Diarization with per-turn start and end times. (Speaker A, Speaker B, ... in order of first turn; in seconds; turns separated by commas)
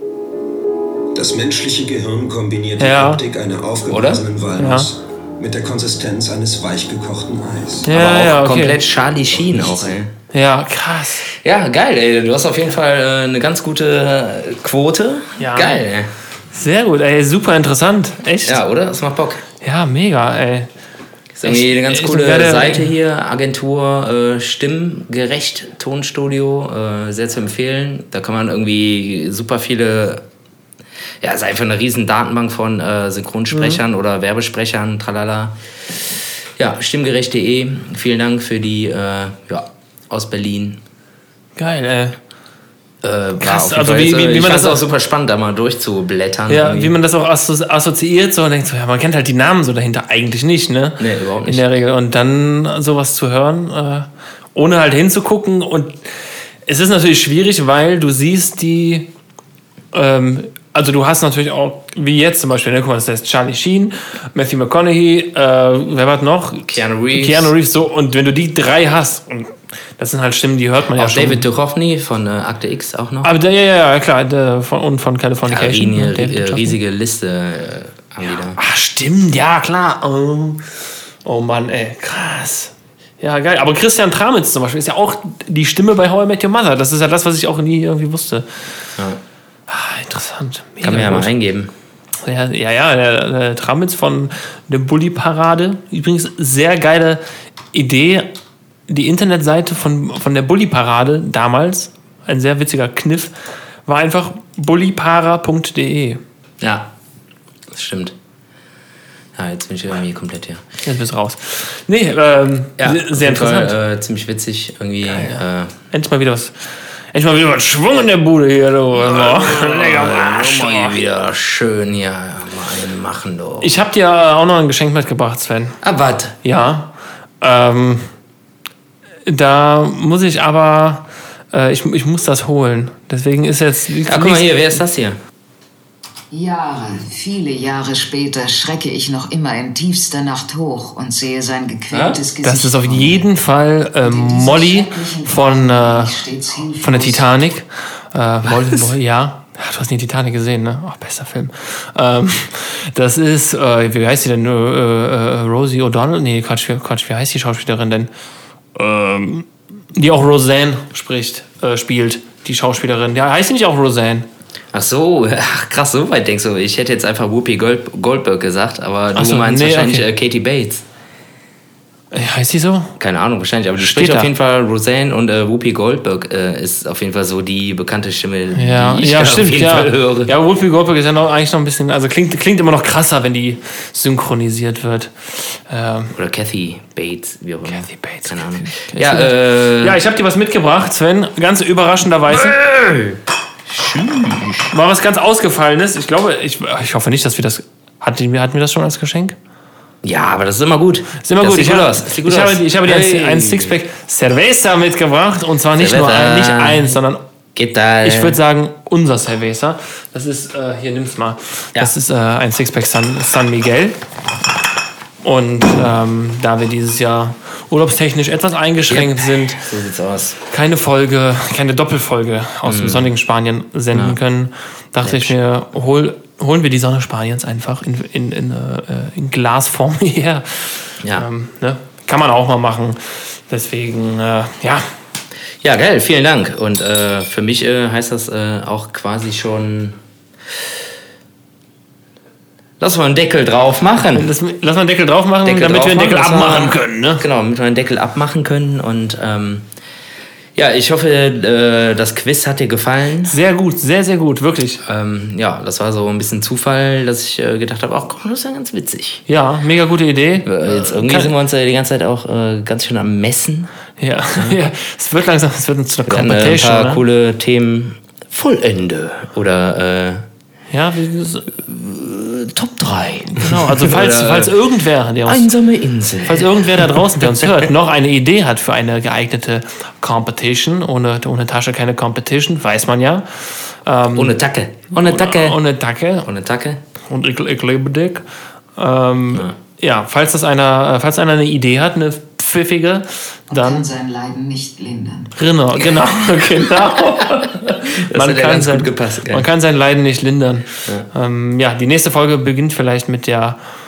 Speaker A: 1.1-7.9, Speaker B: 2.8-3.2, Speaker C: 3.9-4.2, Speaker B: 4.6-4.9, Speaker B: 7.8-8.8, Speaker C: 7.9-10.1, Speaker B: 10.3-11.3, Speaker C: 11.3-16.1, Speaker B: 15.4-15.8, Speaker B: 16.5-18.6, Speaker C: 18.4-19.4, Speaker B: 19.6-20.7, Speaker C: 21.3-30.2, Speaker B: 21.4-22.9, Speaker C: 31.2-35.5, Speaker B: 33.5-33.8, Speaker C: 36.6-40.8, Speaker B: 41.6-42.2, Speaker C: 43.0-46.9, Speaker B: 43.4-44.8, Speaker B: 46.5-56.0, Speaker C: 51.0-51.6, Speaker B: 56.6-59.1, Speaker B: 59.9-71.5, Speaker C: 66.7-67.5, Speaker C: 71.0-73.3, Speaker B: 73.2-76.8, Speaker C: 75.5-78.6, Speaker B: 78.5-80.7, Speaker B: 81.2-88.5, Speaker B: 89.7-91.3, Speaker C: 90.8-91.7, Speaker B: 92.2-97.2, Speaker B: 97.7-98.3, Speaker B: 98.9-103.3, Speaker B: 103.8-106.2, Speaker C: 106.6-106.9, Speaker C: 107.7-108.2, Speaker C: 109.3-110.6, Speaker B: 110.8-113.8, Speaker C: 112.8-115.8, Speaker B: 115.1-116.5, Speaker B: 117.1-121.0, Speaker C: 118.9-123.7, Speaker B: 123.6-125.8, Speaker C: 125.8-126.3, Speaker B: 126.4-128.1, Speaker B: 129.2-134.8, Speaker C: 134.0-135.2, Speaker D: 136.3-143.3, Speaker C: 141.9-142.2, Speaker B: 142.4-146.1, Speaker D: 144.0-147.3, Speaker B: 146.8-158.1, Speaker B: 158.8-164.3, Speaker C: 164.7-170.8, Speaker B: 169.1-170.1, Speaker B: 172.1-172.9, Speaker C: 173.0-180.3, Speaker B: 173.8-174.3, Speaker B: 178.6-186.1, Speaker C: 186.1-190.0, Speaker B: 187.7-192.6, Speaker C: 192.3-194.7, Speaker B: 194.7-199.3, Speaker C: 200.0-203.8, Speaker B: 201.2-207.2, Speaker C: 205.8-206.9, Speaker C: 207.5-208.4, Speaker B: 208.0-214.0, Speaker B: 215.2-219.6, Speaker C: 218.9-220.4, Speaker B: 220.5-234.8, Speaker C: 222.6-223.1, Speaker C: 225.0-225.3, Speaker C: 235.6-240.0, Speaker C: 242.8-244.3, Speaker B: 244.1-247.2, Speaker C: 245.4-249.7, Speaker C: 250.5-253.4, Speaker B: 253.3-254.8, Speaker C: 254.8-259.2, Speaker B: 259.3-261.3, Speaker C: 260.4-263.7, Speaker B: 264.0-267.0, Speaker C: 266.1-270.2, Speaker B: 270.7-271.5, Speaker C: 271.6-274.6, Speaker B: 273.3-275.5, Speaker C: 275.2-277.5, Speaker B: 276.2-284.4, Speaker C: 284.1-285.6, Speaker B: 285.0-286.3, Speaker C: 286.2-286.8, Speaker B: 287.1-288.2, Speaker B: 288.8-293.8, Speaker D: 293.5-295.3, Speaker B: 295.4-303.6, Speaker C: 295.8-296.1, Speaker C: 298.0-299.4